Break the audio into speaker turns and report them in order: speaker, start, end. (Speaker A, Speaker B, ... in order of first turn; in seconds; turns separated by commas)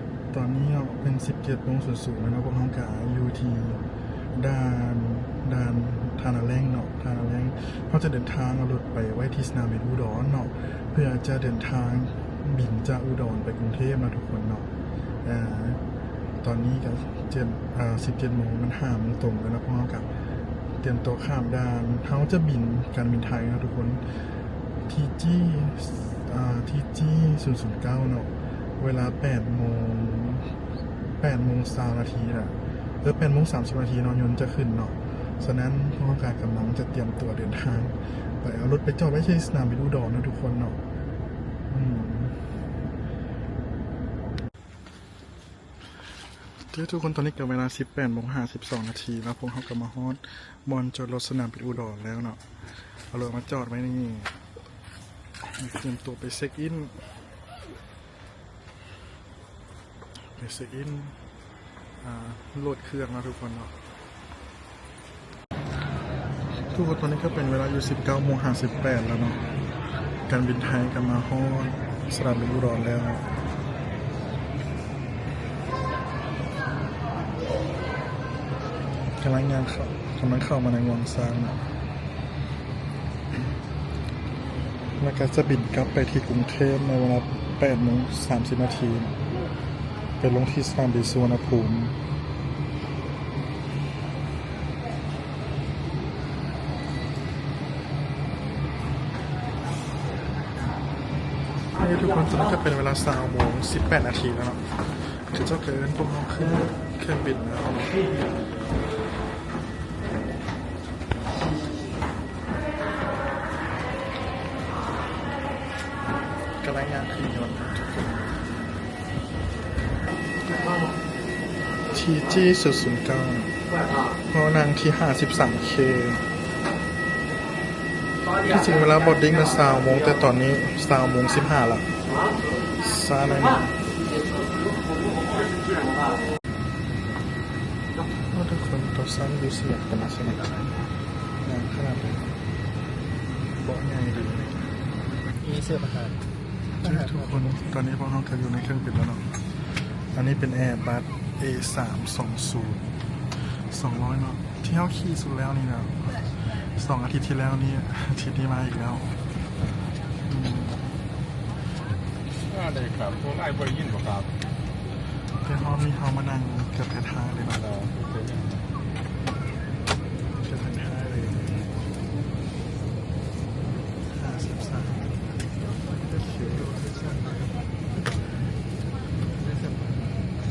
Speaker A: 0.3-3.8, Speaker A: 4.3-14.7, Speaker A: 15.2-15.8, Speaker A: 16.4-20.1, Speaker A: 20.8-24.0, Speaker A: 24.9-30.4, Speaker A: 31.2-40.8, Speaker A: 41.7-42.4, Speaker A: 46.7-52.4, Speaker A: 53.1-54.3, Speaker A: 55.4-56.9, Speaker A: 60.4-61.1, Speaker A: 62.0-63.7, Speaker A: 66.7-69.4, Speaker A: 70.3-73.2, Speaker A: 79.2-81.6, Speaker A: 85.0-89.2, Speaker A: 90.2-92.0, Speaker A: 101.8-108.2, Speaker A: 116.6-118.3, Speaker A: 121.9-123.5, Speaker A: 124.3-126.2, Speaker A: 128.4-131.9, Speaker A: 132.8-133.7, Speaker A: 138.3-140.5, Speaker A: 141.4-142.2, Speaker A: 143.6-144.5, Speaker B: 145.4-146.2, Speaker B: 146.8-147.6, Speaker A: 146.8-149.2, Speaker A: 150.1-152.8, Speaker A: 153.7-159.1, Speaker A: 160.3-160.8, Speaker C: 162.5-164.3, Speaker A: 165.4-167.7, Speaker C: 167.7-168.5, Speaker A: 170.4-171.4, Speaker A: 174.1-175.2, Speaker B: 176.0-177.6, Speaker A: 176.2-176.7, Speaker B: 179.4-180.1